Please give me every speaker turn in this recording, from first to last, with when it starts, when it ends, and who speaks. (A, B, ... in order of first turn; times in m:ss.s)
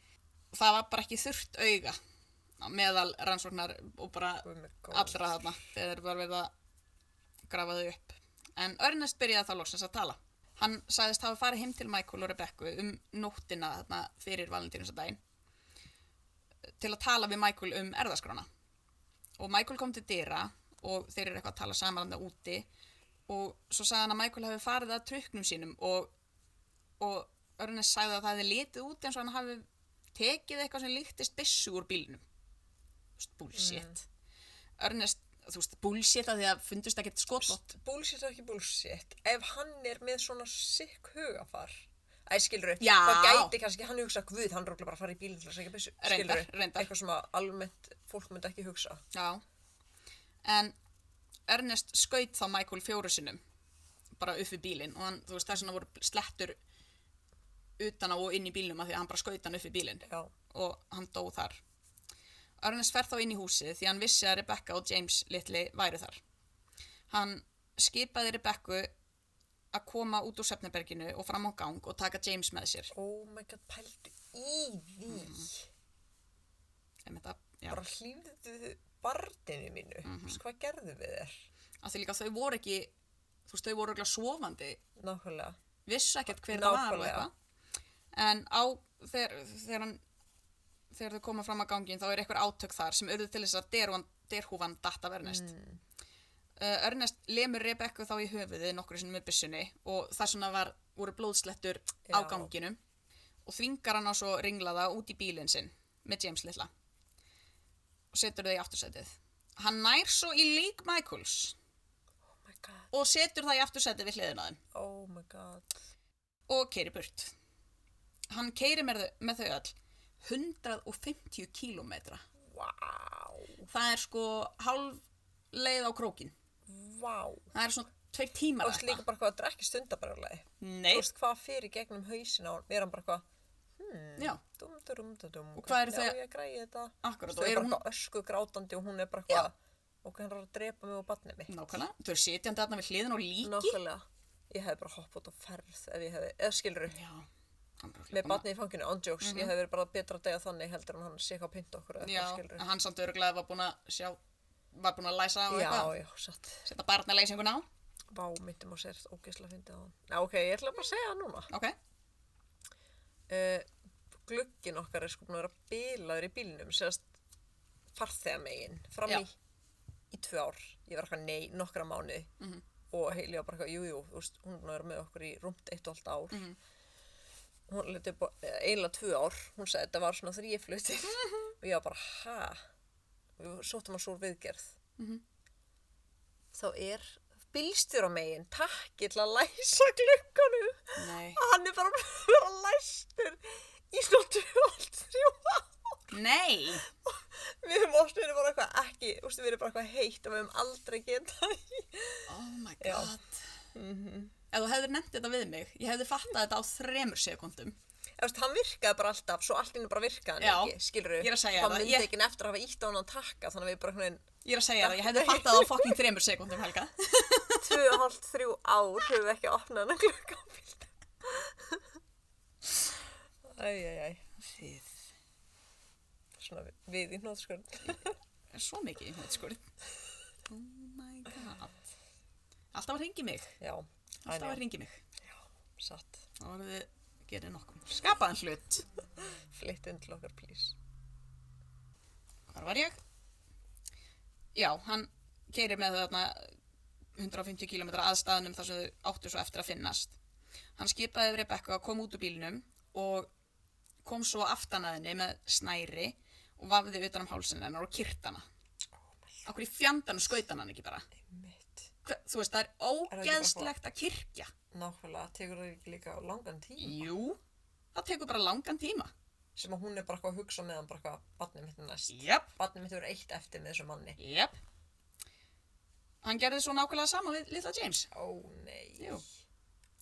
0:00.5-0:02.0 A
0:02.6-0:06.5 A
0:04.4-0:05.4 B
0:07.5-0:15.2 A
0:16.8-0:18.5 A
0:19.4-0:22.7 A
0:23.3-0:26.1 A
0:27.0-0:32.2 A
0:33.2-0:34.0 A
0:33.6-0:34.0 B
0:34.8-0:37.7 A
0:37.4-0:49.0 B
0:42.8-0:43.5 A
0:46.0-0:46.9 A
0:49.1-0:49.4 A
0:50.4-0:50.8 A
0:51.5-0:53.4 A
0:54.2-0:56.6 A
0:57.8-1:01.6 A
1:00.1-1:00.3 B
1:02.6-1:06.2 A
1:07.1-1:08.9 A
1:09.7-1:12.9 A
1:12.9-1:15.7 B
1:15.1-1:15.5 A
1:17.0-1:17.8 A
1:17.7-1:21.5 B
1:20.0-1:20.4 A
1:21.8-1:22.9 A
1:23.5-1:24.8 A
1:25.0-1:25.6 B
1:25.9-1:27.3 A
1:26.4-1:27.3 B
1:28.1-1:30.0 A
1:30.9-1:35.5 A
1:35.2-1:35.8 B
1:36.6-1:42.8 A
1:42.1-1:42.5 B
1:43.4-1:46.7 A
1:48.1-1:51.6 A
1:52.3-1:52.9 B
1:52.9-1:54.6 A
1:54.7-1:55.8 B
1:56.5-1:57.3 A
1:58.3-2:02.2 A
2:02.5-2:03.6 B
2:03.6-2:06.3 A
2:06.7-2:07.5 B
2:07.5-2:09.0 A
2:08.6-2:13.2 B
2:10.6-2:11.1 A
2:13.8-2:21.6 B
2:15.6-2:16.2 A
2:17.0-2:17.8 A
2:21.5-2:23.8 A
2:23.4-2:27.0 B
2:26.9-2:27.3 A
2:27.8-2:28.4 A
2:28.1-2:32.7 B
2:29.2-2:29.5 A
2:32.0-2:34.2 A
2:34.7-2:36.0 A
2:35.5-2:36.7 B
2:36.6-2:37.6 A
2:38.1-2:41.5 B
2:41.5-2:41.8 A
2:43.3-2:43.7 B
2:44.3-2:47.1 B
2:48.0-2:49.3 B
2:50.1-2:52.3 B
2:52.9-2:56.4 B
2:56.3-2:56.6 A
2:57.7-3:02.6 B
3:03.4-3:04.8 B
3:05.0-3:05.2 A
3:06.5-3:16.1 B
3:11.0-3:11.4 A
3:16.1-3:16.8 A
3:16.8-3:23.1 B
3:22.3-3:23.5 A
3:23.7-3:24.3 B
3:24.5-3:27.8 A
3:28.2-3:34.3 B
3:30.4-3:32.1 A
3:34.4-3:38.0 A
3:34.8-3:36.0 B
3:37.6-3:41.9 B
3:43.4-3:44.2 B
3:44.4-3:44.9 A
3:46.4-3:48.2 B
3:48.5-3:49.6 A
3:50.5-3:51.8 A
3:52.7-3:53.6 A
3:53.6-3:54.6 B
3:54.2-3:55.0 A
3:55.2-3:56.3 B
3:56.4-3:58.8 A
3:59.2-4:00.8 B
4:02.5-4:03.0 A
4:04.6-4:06.5 A
4:07.2-4:10.2 A
4:10.8-4:13.3 A
4:14.0-4:18.4 A
4:19.0-4:19.4 B
4:19.5-4:21.1 A
4:21.1-4:21.9 B
4:22.0-4:24.5 A
4:23.1-4:23.7 B
4:24.7-4:27.1 B
4:26.8-4:27.4 A
4:27.9-4:29.1 A
4:29.6-4:34.2 B
4:32.1-4:32.5 A
4:34.2-4:34.6 A
4:36.2-4:38.1 A
4:38.1-4:39.3 B
4:39.0-4:39.2 A